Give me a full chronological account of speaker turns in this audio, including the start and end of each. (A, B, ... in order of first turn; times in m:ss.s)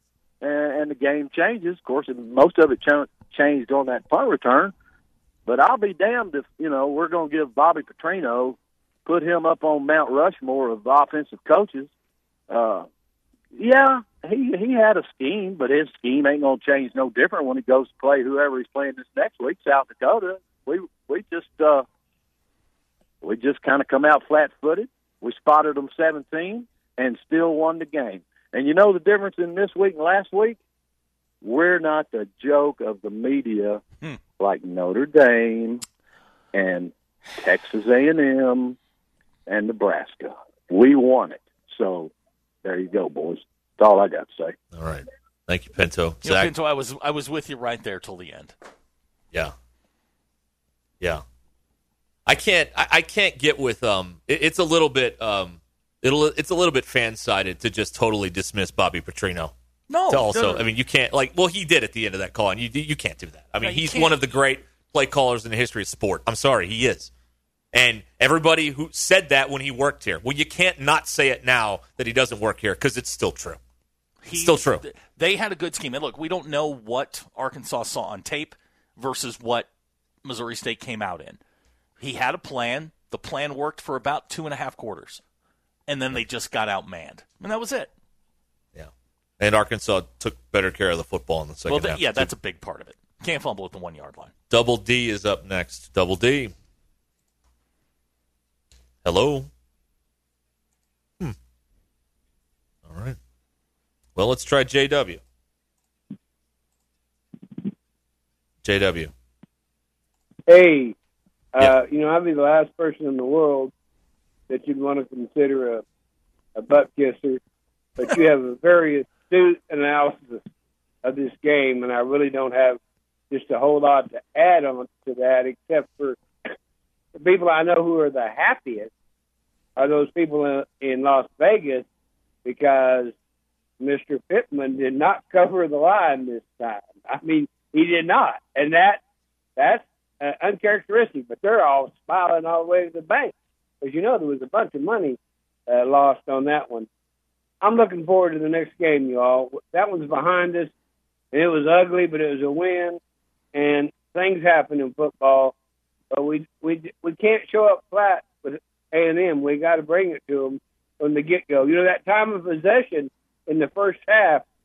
0:00.4-0:04.7 A
0:05.5-0:11.9 A
0:12.5-0:12.9 A
0:13.5-0:21.8 A
0:23.2-0:30.6 A
0:31.4-0:33.8 A
0:34.4-0:35.8 A
0:36.5-0:38.8 A
0:39.5-0:42.1 A
0:42.6-0:44.5 A
0:44.7-0:46.5 B
0:46.2-0:48.5 C
0:52.2-0:59.5 B
0:59.9-1:00.6 C
1:00.1-1:07.1 B
1:03.6-1:04.4 C
1:07.7-1:13.6 B
1:14.2-1:19.7 C
1:14.3-1:14.8 B
1:20.2-1:21.4 C
1:22.0-1:25.2 C
1:25.9-1:27.9 C
1:28.7-1:32.3 B
1:31.7-1:34.3 C
1:34.5-1:36.5 B
1:39.0-1:39.5 B
1:42.9-1:43.2 B
1:44.2-1:45.2 B
1:48.6-1:49.1 B
1:50.5-1:50.9 D
1:51.5-1:53.7 D
1:54.5-1:55.8 D
1:56.6-1:57.4 D
1:58.0-2:00.4 D
2:01.0-2:02.8 D
2:03.3-2:06.2 D
2:07.1-2:08.9 D
2:09.8-2:11.8 D
2:12.4-2:13.1 D
2:13.8-2:19.0 D
2:19.6-2:26.9 D
2:27.6-2:30.7 D
2:31.3-2:33.0 D
2:33.5-2:35.6 D
2:36.1-2:44.4 D